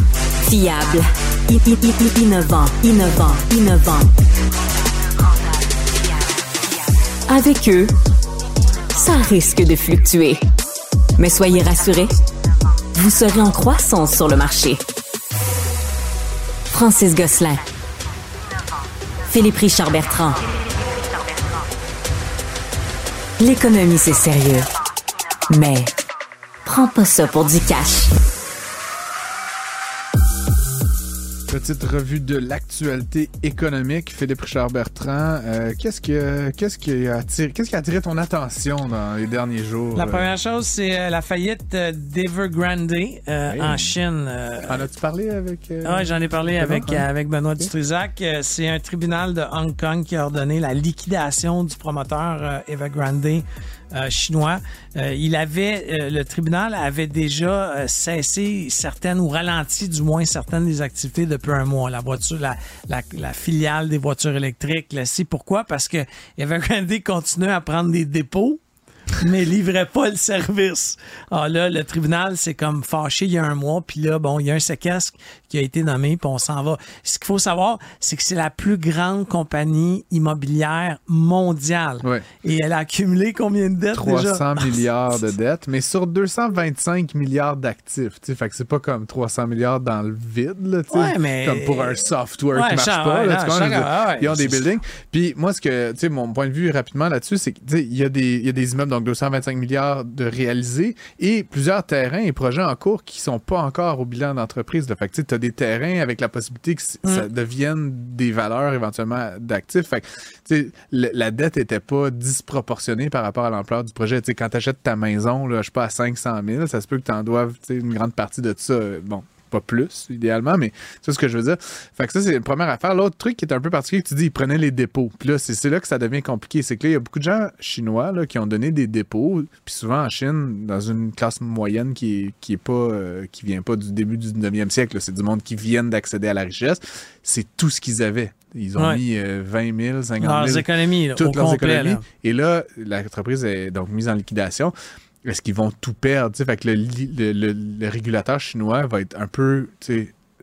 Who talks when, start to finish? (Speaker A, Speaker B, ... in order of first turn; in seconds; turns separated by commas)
Speaker A: 0.5-4.1, Speaker A: 7.3-7.9, Speaker A: 8.9-10.4, Speaker A: 11.2-12.1, Speaker A: 12.9-14.8, Speaker A: 16.7-17.6, Speaker A: 19.3-20.4, Speaker A: 23.4-24.7, Speaker A: 25.5-25.9, Speaker A: 26.6-28.1, Speaker B: 31.5-40.3, Speaker C: 39.9-44.9, Speaker B: 43.5-43.9, Speaker B: 44.6-47.0, Speaker C: 45.8-68.6, Speaker C: 69.2-85.2, Speaker B: 83.9-144.7, Speaker C: 90.9-92.0, Speaker C: 92.5-94.6, Speaker C: 138.8-139.0, Speaker C: 140.2-142.0, Speaker B: 145.2-150.1